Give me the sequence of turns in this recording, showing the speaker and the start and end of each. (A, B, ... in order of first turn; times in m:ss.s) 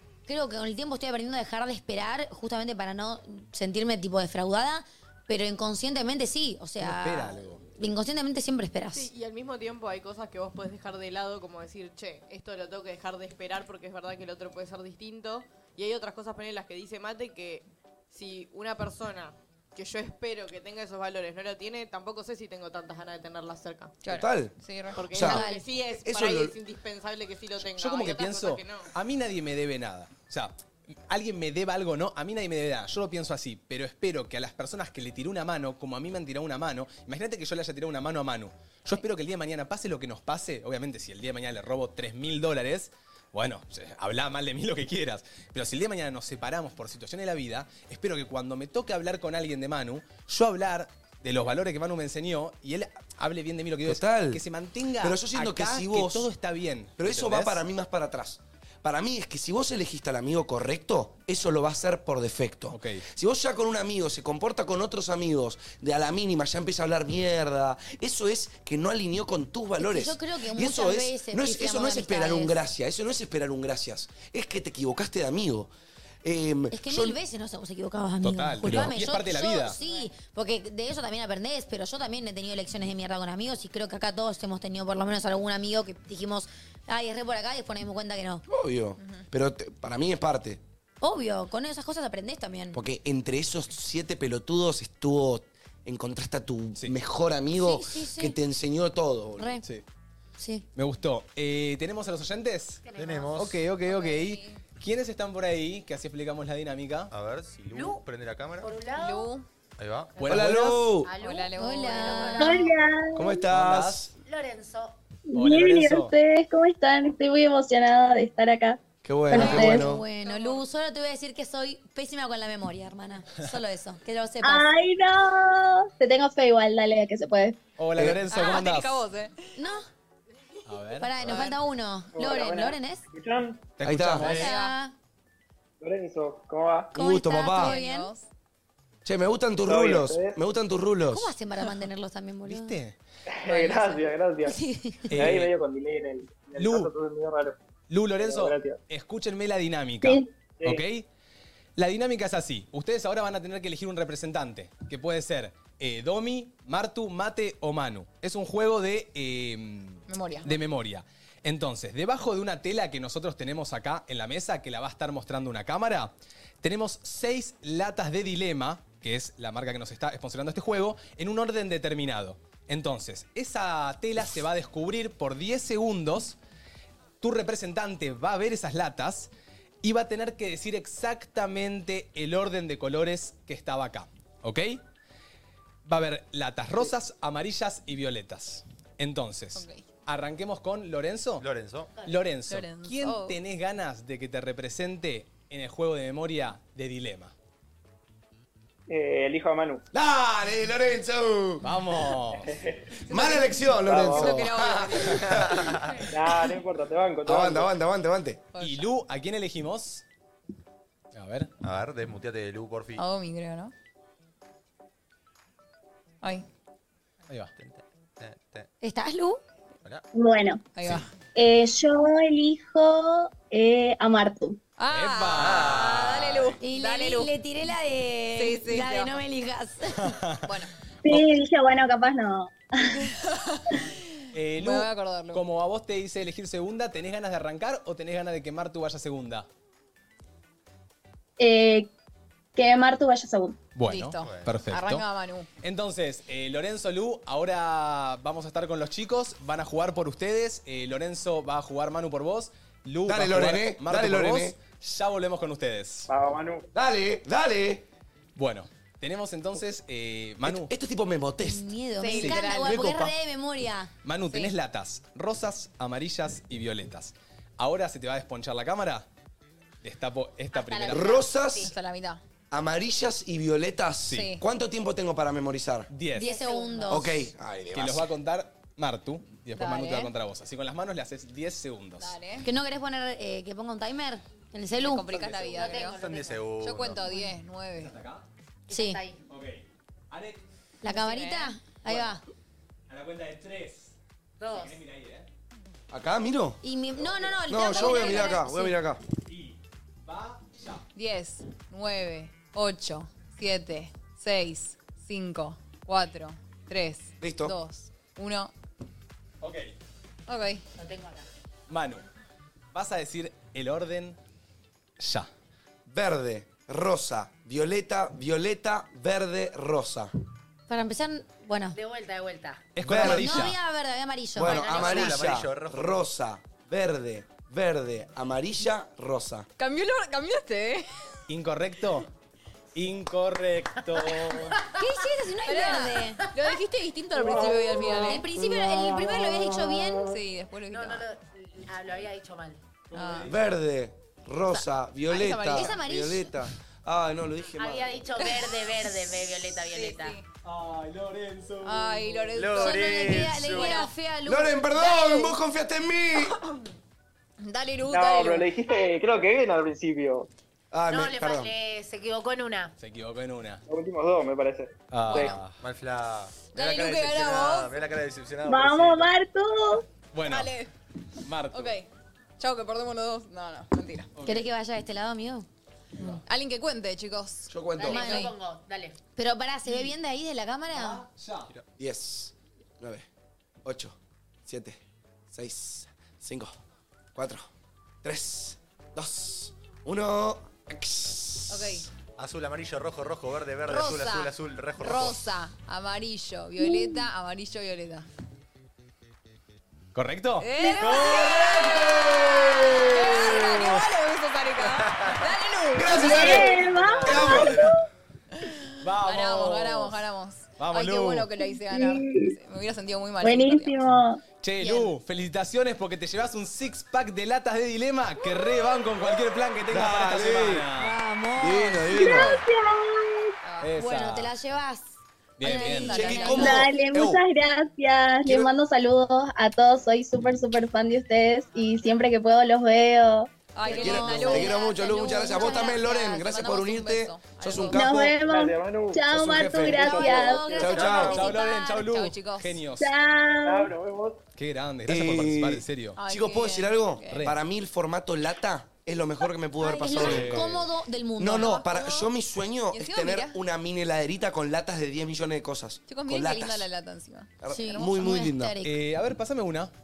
0:00.2-0:09.1 A
0:06.8-0:07.6 B
0:08.9-0:24.0 C
0:24.0-0:25.0 D
0:24.0-0:26.5 E
0:24.9-0:28.9 C
0:25.1-0:25.6 A
0:27.6-0:57.6 B
0:53.8-0:54.4 E
0:55.0-0:56.3 E
0:57.0-1:15.7 E
1:02.7-1:03.0 B
1:09.8-1:12.6 A
1:16.2-1:17.2 E
1:16.7-1:28.4 A
1:18.2-1:19.8 B
1:18.6-1:18.9 E
1:28.5-1:30.6 E
1:31.0-1:32.8 A
1:32.7-1:39.5 E
1:37.5-1:38.4 A
1:39.4-1:39.6 A
1:40.4-1:40.6 A
1:40.8-1:47.1 B
1:42.8-1:43.4 F
1:43.0-1:43.6 G
1:43.8-1:44.6 D
1:47.1-1:48.7 G
1:47.7-1:48.0 F
1:48.6-1:49.3 F
1:48.9-1:49.4 D
1:49.8-1:50.1 G
1:50.2-1:51.1 B
1:50.2-1:51.1 E
1:51.0-1:52.6 F
1:51.2-1:52.6 D
1:51.6-1:52.7 A
1:52.4-1:53.4 H
1:53.1-1:54.1 E
1:53.5-1:54.1 B
1:54.2-1:55.0 F
1:55.3-1:59.9 H
1:55.3-1:56.1 B
1:59.0-2:00.0 E
1:59.3-2:04.7 A
2:00.3-2:00.5 C
2:04.4-2:07.6 H
2:07.8-2:09.0 B
2:08.0-2:08.2 E
2:08.3-2:09.5 D
2:09.6-2:09.8 A
2:10.6-2:11.4 B
2:11.0-2:13.0 A
2:12.1-2:13.7 I
2:13.8-2:14.5 B
2:13.8-2:14.4 E
2:14.2-2:14.9 A
2:14.3-2:14.8 D
2:15.8-2:16.9 I
2:16.9-2:17.8 E
2:16.9-2:18.1 A
2:17.5-2:18.2 D
2:19.0-2:21.3 E
2:19.6-2:20.4 I
2:21.1-2:22.8 A
2:22.4-2:23.0 B
2:23.3-2:24.6 I
2:24.4-2:25.1 A
2:25.1-2:25.5 B
2:25.1-2:27.6 I
2:26.6-2:26.9 B
2:27.9-2:31.1 B
2:28.2-2:28.8 I
2:30.0-2:30.3 H
2:31.8-2:56.4 B
2:40.1-2:40.6 D
2:57.2-2:59.3 B
2:59.8-3:04.8 B
3:05.8-3:11.5 B
3:09.6-3:09.8 D
3:11.4-3:11.9 G
3:12.0-3:17.3 B
3:12.5-3:13.4 D
3:18.9-3:19.8 I
3:19.9-3:21.7 E
3:21.6-3:22.5 B
3:22.4-3:22.8 I
3:23.1-3:25.8 E
3:23.1-3:25.2 D
3:23.8-3:24.4 I
3:26.1-3:27.7 I
3:27.2-3:28.4 E
3:28.5-3:28.8 D
3:28.6-3:30.0 B
3:31.1-3:31.5 B
3:31.6-3:33.0 G
3:33.0-3:33.7 D
3:37.6-3:38.7 G
3:38.8-3:39.4 A
3:40.1-3:40.6 H
3:40.7-3:41.1 D
3:41.3-3:44.6 H
3:44.8-3:47.3 D
3:44.9-3:46.5 B
3:45.4-3:46.2 G
3:46.6-3:50.2 A
3:48.4-3:49.1 D
3:50.0-3:50.5 B
3:50.4-3:50.7 D
3:51.0-3:53.0 H
3:53.0-3:55.4 D
3:54.3-3:59.5 B
4:01.4-4:01.9 H
4:02.5-4:03.6 H
4:03.8-4:05.0 B
4:03.8-4:05.5 D
4:04.2-4:04.6 G
4:05.6-4:16.1 B
4:13.1-4:14.6 E
4:16.1-4:16.7 I
4:16.7-4:17.8 E
4:18.3-4:20.7 B
4:20.4-4:21.6 E
4:21.4-4:23.9 A
4:22.0-4:22.9 D
4:22.1-4:22.5 B
4:22.2-4:23.1 E
4:24.0-4:29.1 B
4:29.8-4:31.2 B
4:30.5-4:31.7 F
4:30.9-4:31.7 E
4:31.6-4:32.2 D
4:32.5-4:35.9 E
4:34.1-4:34.4 D
4:35.9-4:36.3 B
4:36.1-4:37.1 A
4:36.2-4:36.7 F
4:36.5-4:37.0 D
4:36.9-4:38.1 E
4:37.7-4:42.2 B
4:39.6-4:40.1 D
4:42.0-4:42.5 D
4:42.4-4:45.2 A
4:44.8-4:46.0 D
4:45.2-4:45.6 B
4:45.3-4:46.5 F
4:45.9-4:47.1 G
4:46.6-4:47.9 D
4:47.8-4:48.2 B
4:48.7-4:49.2 F
4:48.7-4:49.0 A
4:49.3-4:50.4 B
4:50.8-4:52.2 A
4:50.9-4:51.5 D
4:52.9-4:54.0 B
4:54.4-4:54.8 F
4:54.5-4:55.3 B
4:55.9-4:56.6 E
4:56.6-4:58.8 A
4:57.5-4:59.0 E
4:58.0-4:58.3 D
4:59.3-5:00.8 B
5:00.9-5:08.5 D
5:07.2-5:07.5 E
5:09.4-5:09.7 B
5:10.3-5:10.6 D
5:10.7-5:11.2 F
5:11.7-5:12.0 B
5:12.7-5:14.2 B
5:15.0-5:15.3 B
5:15.9-5:20.1 E
5:20.7-5:21.8 A
5:21.7-5:22.7 F
5:22.8-5:23.6 B
5:22.8-5:23.4 E
5:22.9-5:24.8 A
5:24.3-5:29.5 E
5:24.4-5:25.2 F
5:24.5-5:26.0 G
5:29.6-5:31.0 D
5:31.3-5:32.1 B
5:32.7-5:34.6 B
5:34.0-5:34.7 F
5:34.7-5:36.2 A
5:35.4-5:38.3 D
5:38.0-5:40.1 A
5:40.0-5:41.1 D
5:40.7-5:42.6 F
5:42.9-5:43.3 B
5:42.9-5:43.3 D
5:43.2-5:48.1 E
5:44.5-5:45.8 D
5:45.5-5:46.3 A
5:47.6-5:50.2 F
5:48.2-5:48.9 D
5:49.7-5:50.2 D
5:50.4-5:52.4 B
5:51.6-5:53.9 D
5:52.3-5:53.9 G
5:52.5-5:54.7 A
5:54.3-5:56.4 E
5:54.7-5:55.4 D
5:57.4-5:58.5 D
5:57.9-6:00.3 I
6:00.7-6:01.5 E
6:00.9-6:02.7 F
6:02.8-6:03.6 B
6:03.7-6:05.3 I
6:04.9-6:05.4 B
6:05.1-6:05.4 D
6:05.1-6:09.1 G
6:06.5-6:07.7 D
6:08.4-6:09.8 H
6:10.1-6:10.6 B
6:10.2-6:10.7 D
6:11.2-6:11.7 B
6:11.5-6:11.9 D
6:12.4-6:14.1 D
6:14.2-6:14.5 B
6:14.2-6:15.5 A
6:16.0-6:16.2 B
6:16.0-6:18.3 D
6:17.5-6:18.1 E
6:17.8-6:19.0 F
6:17.8-6:18.3 A
6:19.2-6:21.0 A
6:20.7-6:21.5 B
6:21.8-6:23.0 E
6:23.6-6:24.8 E
6:25.3-6:26.5 E
6:27.1-6:27.5 E
6:28.0-6:31.8 E
6:31.5-6:31.8 D
6:32.2-6:35.2 G
6:33.6-6:38.1 D
6:39.9-6:42.4 B
6:40.4-6:46.4 D
6:41.0-6:43.4 E
6:43.3-6:43.7 B
6:44.6-6:45.2 G
6:45.7-6:46.5 E
6:45.8-6:47.7 G
6:46.0-6:47.8 H
6:47.0-6:47.7 E
6:48.3-6:53.8 D
6:48.8-6:50.0 B
6:50.6-6:51.3 B
6:51.7-6:52.4 H
6:53.2-6:54.2 H
6:54.4-7:01.0 B
6:59.7-7:00.6 E
7:00.8-7:02.4 A
7:01.4-7:02.4 E
7:01.9-7:03.4 H
7:03.4-7:03.7 D
7:03.6-7:04.3 B
7:03.8-7:06.5 A
7:05.4-7:07.2 B
7:05.4-7:06.6 D
7:05.9-7:07.2 E
7:06.4-7:13.3 H
7:08.2-7:08.5 E
7:13.5-7:17.9 D
7:13.6-7:16.0 A
7:13.6-7:18.1 E
7:17.7-7:20.6 H
7:18.1-7:21.0 I
7:19.1-7:19.9 B
7:19.3-7:19.6 E
7:19.8-7:21.9 A
7:20.5-7:21.2 E
7:20.9-7:22.9 B
7:21.5-7:22.6 D
7:22.8-7:23.7 H
7:23.4-7:24.2 I
7:24.4-7:26.0 B
7:24.9-7:30.5 E
7:26.0-7:27.3 D
7:27.1-7:27.4 B
7:29.6-7:32.0 A
7:29.9-7:30.5 G
7:31.2-7:36.7 E
7:32.7-7:33.4 D
7:35.9-7:37.3 D
7:37.4-7:38.6 E
7:37.5-7:38.7 A
7:38.6-7:39.7 B